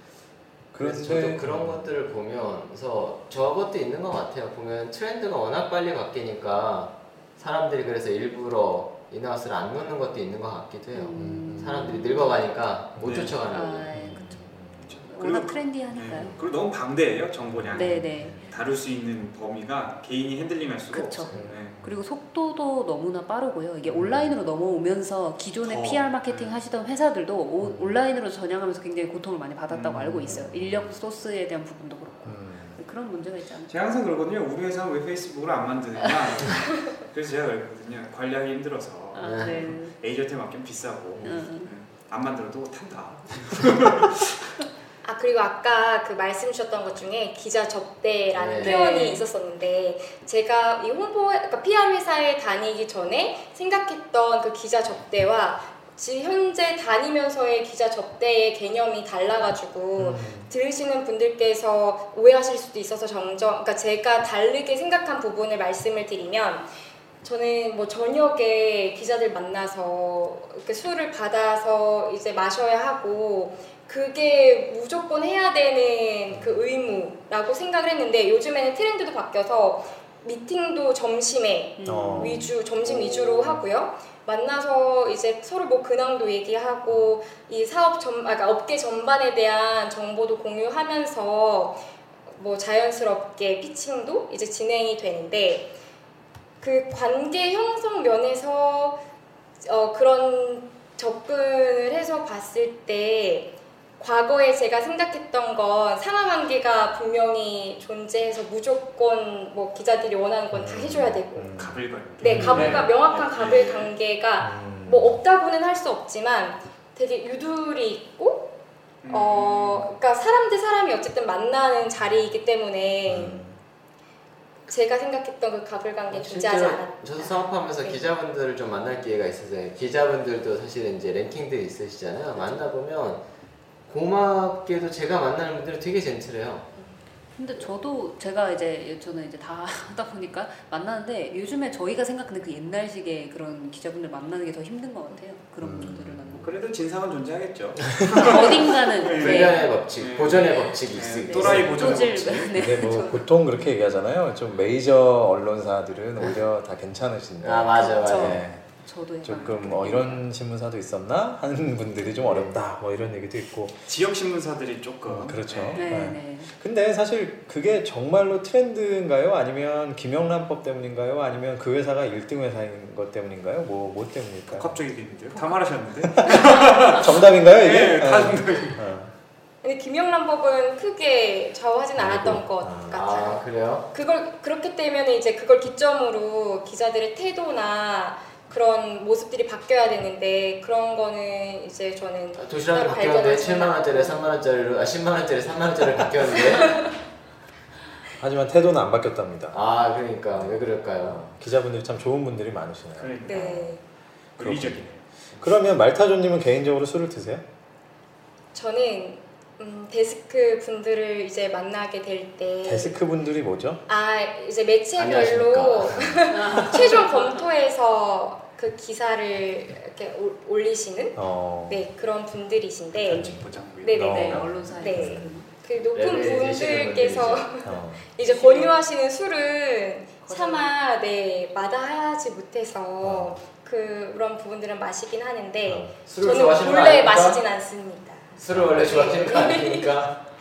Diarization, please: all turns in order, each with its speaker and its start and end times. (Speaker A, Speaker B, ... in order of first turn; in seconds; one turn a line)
Speaker A: 0.7-1.9
Speaker B: 0.8-13.9
Speaker C: 10.9-12.4
Speaker A: 11.2-12.1
Speaker A: 13.0-13.3
Speaker D: 13.0-13.4
Speaker C: 13.4-14.5
Speaker A: 13.9-14.9
Speaker D: 14.9-21.8
Speaker C: 15.1-16.4
Speaker A: 17.5-18.4
Speaker C: 17.7-18.5
Speaker C: 20.9-33.7
Speaker A: 21.3-22.0
Speaker A: 23.9-24.4
Speaker D: 25.6-26.5
Speaker A: 27.6-28.0
Speaker D: 29.7-30.3
Speaker A: 30.2-31.0
Speaker A: 32.2-32.8
Speaker D: 33.7-44.3
Speaker C: 39.1-39.9
Speaker B: 39.2-39.7
Speaker B: 41.2-41.4
Speaker C: 41.2-41.7
Speaker E: 45.0-66.7
Speaker B: 48.3-48.9
Speaker C: 48.6-49.2
Speaker A: 60.0-60.5
Speaker E: 67.2-95.7
Speaker A: 76.3-76.6
Speaker C: 81.8-82.5
Speaker A: 81.8-82.5
Speaker E: 96.6-99.0
Speaker E: 99.6-111.5
Speaker A: 110.5-112.9
Speaker D: 111.6-113.9
Speaker E: 112.2-118.5
Speaker A: 114.4-115.2
Speaker D: 119.0-119.9
Speaker E: 119.1-123.4
Speaker A: 123.1-123.6
Speaker E: 124.7-128.0
Speaker B: 126.1-133.2
Speaker B: 133.9-136.7
Speaker C: 137.4-146.5
Speaker A: 145.6-146.5
Speaker D: 146.4-152.6
Speaker C: 148.2-149.7
Speaker B: 149.2-152.1
Speaker C: 151.2-153.2
Speaker A: 151.4-152.0
Speaker A: 152.5-158.7
Speaker B: 157.4-158.4
Speaker C: 157.8-160.2
Speaker A: 159.2-163.8
Speaker B: 162.2-162.6
Speaker D: 163.9-165.8
Speaker A: 165.1-174.8
Speaker C: 165.7-166.5
Speaker D: 174.5-178.8
Speaker A: 176.2-179.1
Speaker E: 179.6-194.3
Speaker A: 182.0-183.0
Speaker B: 182.9-183.9
Speaker B: 192.4-196.9
Speaker A: 198.2-199.6
Speaker B: 199.5-201.2
Speaker A: 200.3-203.8
Speaker D: 203.0-203.7
Speaker E: 203.2-203.8
Speaker D: 204.4-205.0
Speaker A: 204.4-204.8
Speaker A: 205.4-207.4
Speaker E: 208.5-213.0
Speaker A: 212.6-213.8
Speaker E: 213.9-239.9
Speaker B: 215.0-216.2
Speaker C: 216.3-217.4
Speaker A: 221.2-221.8
Speaker D: 223.1-224.6
Speaker A: 223.1-223.4
Speaker A: 223.9-225.4
Speaker C: 224.0-225.5
Speaker B: 225.9-227.5
Speaker A: 227.6-228.1
Speaker C: 228.2-228.8
Speaker C: 230.2-230.7
Speaker A: 233.0-233.4
Speaker A: 235.7-235.9
Speaker B: 236.1-237.4
Speaker B: 238.3-240.2
Speaker A: 238.5-239.1